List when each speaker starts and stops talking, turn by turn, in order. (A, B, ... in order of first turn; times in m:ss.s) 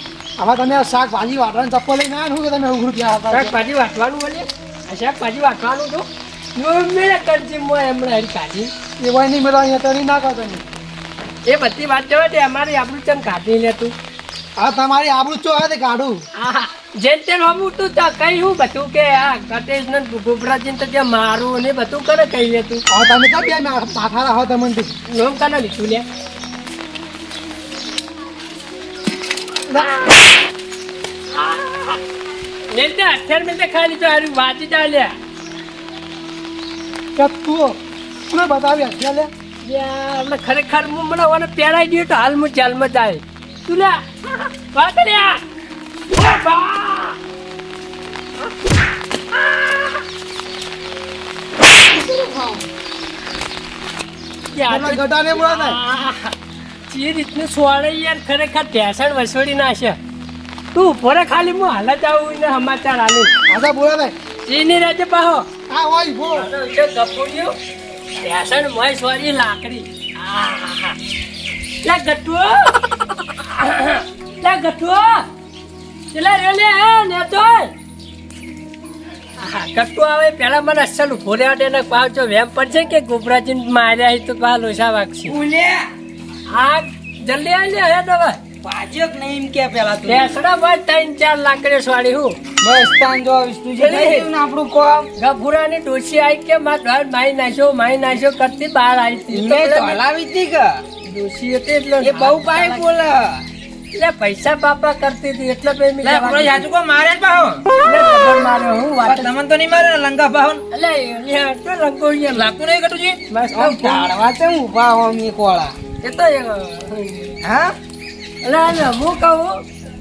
0:00.4-0:03.6 A
0:03.3-0:08.7 B
0:09.0-0:10.6 A
0:11.5-0:13.9 B
0:14.6-0:16.2 A
0:16.4-0:22.8 B
0:22.9-0:24.9 A
0:25.1-0:26.0 B
0:29.8-0:30.2 B
0:31.3-0:32.0 B
0:32.7-0:35.1 B
0:37.2-0:37.8 A
0:38.3-0:39.3 A
0:39.6-0:45.4 B
0:46.1-0:47.2 B
0:49.5-0:49.9 B
0:54.5-0:56.3 B
0:54.7-0:55.8 A
0:56.9-1:00.0 B
1:00.7-1:03.3 B
1:03.5-1:04.2 A
1:04.5-1:05.5 B
1:05.7-1:06.5 A
1:06.4-1:07.5 B
1:08.2-1:11.0 B
1:11.8-1:12.8 B
1:13.4-1:15.3 B
1:16.1-1:17.7 B
1:19.4-1:25.4 B
1:25.3-1:25.9 C
1:26.5-1:28.4 B
1:28.6-1:30.4 C
1:30.1-1:32.4 B
1:32.6-1:35.1 C
1:33.8-1:34.3 B
1:35.2-1:40.0 B
1:39.3-1:40.8 C
1:41.0-1:42.9 B
1:42.0-1:43.4 C
1:43.9-1:46.6 B
1:46.0-1:47.6 D
1:47.8-1:49.3 B
1:49.0-1:50.6 D
1:50.7-1:52.5 B
1:52.3-1:53.2 D
1:53.3-1:54.1 B
1:53.5-1:55.7 C
1:56.0-1:57.4 B
1:57.4-1:57.8 C
1:58.4-1:59.6 B